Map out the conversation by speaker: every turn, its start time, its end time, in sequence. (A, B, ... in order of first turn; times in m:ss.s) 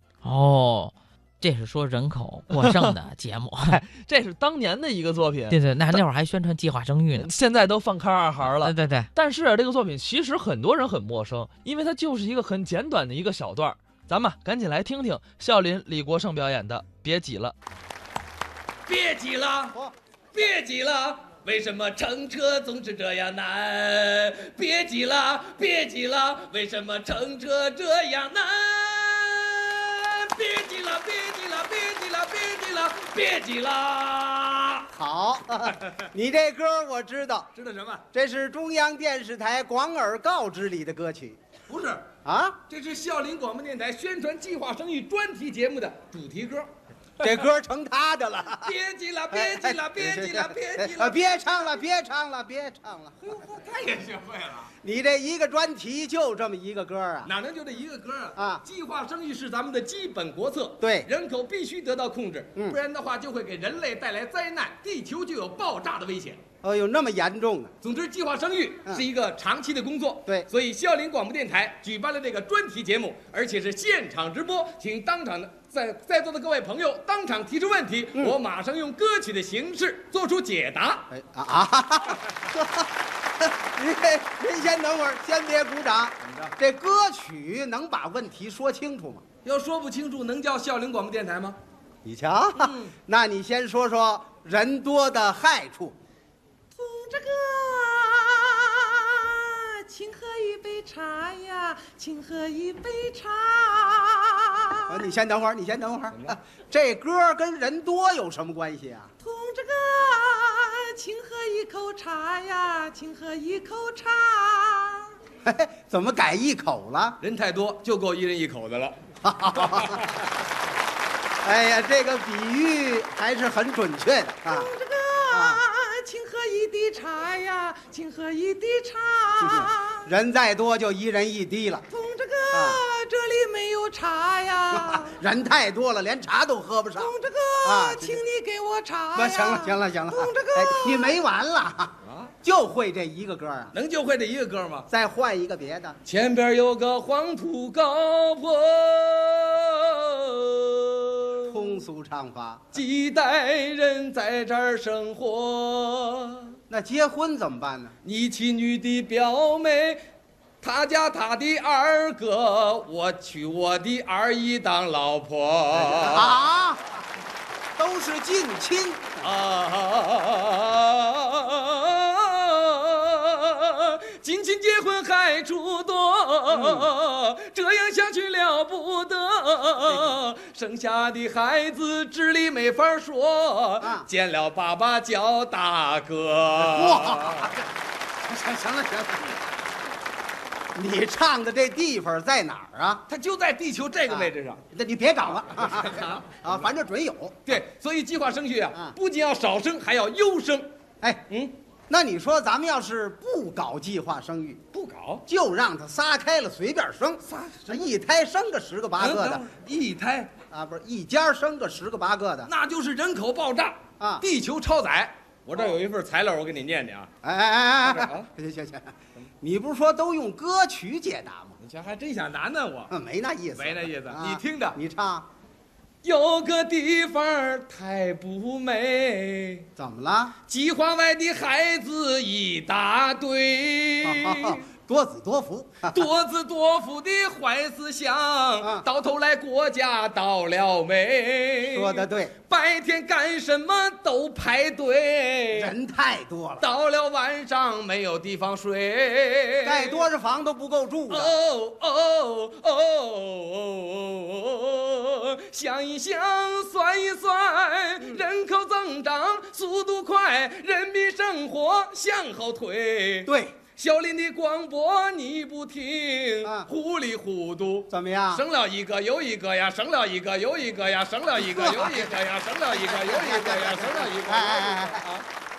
0:00.2-0:03.8 A
0:02.5-0:03.0 B
0:03.7-0:06.0 B
0:05.5-0:07.3 A
0:07.2-0:17.5 B
0:08.4-0:09.1 A
0:18.8-0:19.8 C
0:20.3-0:34.9 C
0:34.9-0:37.5 D
0:35.6-0:36.0 C
0:37.5-0:38.0 C
0:38.1-0:41.4 D
0:41.7-0:42.1 C
0:42.2-0:42.6 D
0:42.6-0:46.7 C
0:47.2-0:47.5 C
0:47.2-0:48.7 D
0:48.6-0:51.8 C
0:49.3-0:53.3 D
0:53.2-0:54.7 C
0:54.8-0:57.3 D
0:57.2-1:06.4 C
0:58.4-0:58.6 D
1:00.8-1:01.1 D
1:06.6-1:07.7 D
1:07.8-1:21.1 C
1:21.1-1:29.2 D
1:26.2-1:26.5 C
1:29.4-1:31.6 C
1:32.0-1:35.9 D
1:32.6-1:32.9 C
1:36.7-1:45.0 E
1:44.9-1:49.1 D
1:49.2-1:55.2 E
1:55.4-1:57.2 D
1:57.2-1:59.0 C
1:59.2-2:00.0 D
1:59.5-2:00.3 C
2:01.4-2:04.7 D
2:04.5-2:10.0 E
2:05.3-2:05.6 D
2:09.4-2:11.8 D
2:11.9-2:15.1 E
2:12.5-2:12.8 D
2:14.7-2:18.2 D
2:17.0-2:21.1 E
2:19.1-2:21.9 D
2:22.0-2:22.3 C
2:22.4-2:23.7 D
2:23.7-2:24.9 C
2:24.9-2:26.0 D
2:26.0-2:31.8 C
2:31.5-2:32.8 D
2:32.7-2:36.6 C
2:36.7-2:37.9 D
2:38.0-2:40.0 C
2:40.6-2:46.4 C
2:45.7-2:47.1 D
2:47.8-2:49.3 D
2:49.2-3:07.6 C
2:56.5-2:56.9 D
2:59.9-3:00.1 D
3:03.8-3:04.1 D
3:06.6-3:07.6 D
3:08.3-3:09.4 D
3:10.7-3:13.0 D
3:13.1-3:14.6 C
3:14.0-3:17.6 D
3:15.6-3:16.5 C
3:17.4-3:20.7 C
3:21.9-3:24.6 D
3:24.7-3:25.2 C
3:25.2-3:29.4 D
3:27.2-3:27.9 C
3:29.0-3:30.3 C
3:30.5-3:32.5 D
3:32.5-3:37.1 C
3:34.0-3:34.2 D
3:37.2-3:41.6 D
3:37.8-3:38.3 C
3:41.6-3:42.9 C
3:42.9-3:45.2 D
3:43.6-3:44.8 C
3:46.0-3:49.7 C
3:49.8-3:50.4 D
3:50.5-3:54.6 C
3:54.0-3:56.1 D
3:55.9-4:05.7 C
4:01.6-4:02.3 D
4:05.5-4:06.7 D
4:06.6-4:10.1 C
4:09.6-4:11.3 D
4:11.1-4:35.2 C
4:23.2-4:23.6 D
4:27.9-4:28.4 D
4:31.3-4:35.0 D